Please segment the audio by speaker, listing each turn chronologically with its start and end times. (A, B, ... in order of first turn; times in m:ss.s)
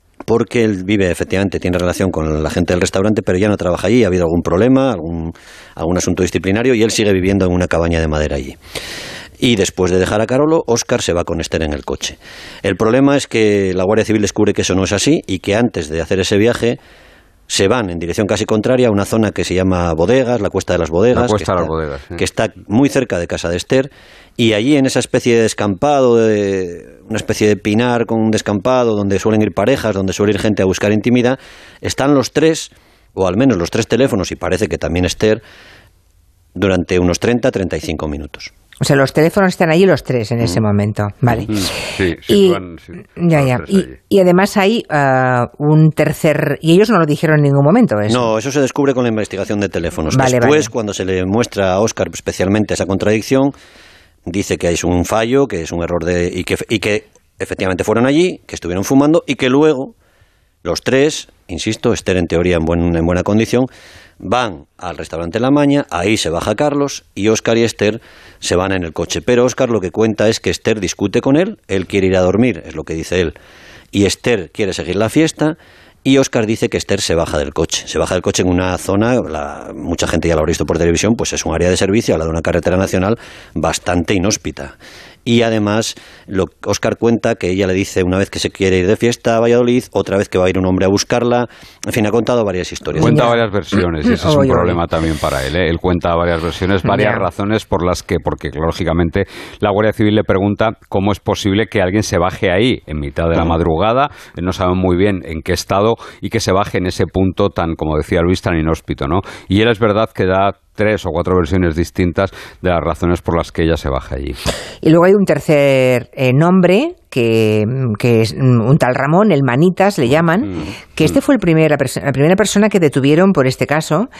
0:00.3-0:08.6 A
0:09.4-0:16.8 A
0:17.5-0:35.4 A
0:21.1-0:22.2 B
0:36.6-0:38.5 A
0:38.8-0:42.6 C
0:41.5-0:44.0 B
0:43.2-0:48.3 C
0:48.1-0:53.5 A
0:50.1-0:50.7 C
0:54.3-0:59.9 A
1:00.6-1:03.7 A
1:04.2-1:13.4 A
1:13.9-1:33.2 A
1:33.0-1:33.4 C
1:33.0-1:54.4 B
1:34.0-1:34.8 C
1:36.8-1:37.2 C
1:54.8-2:04.1 C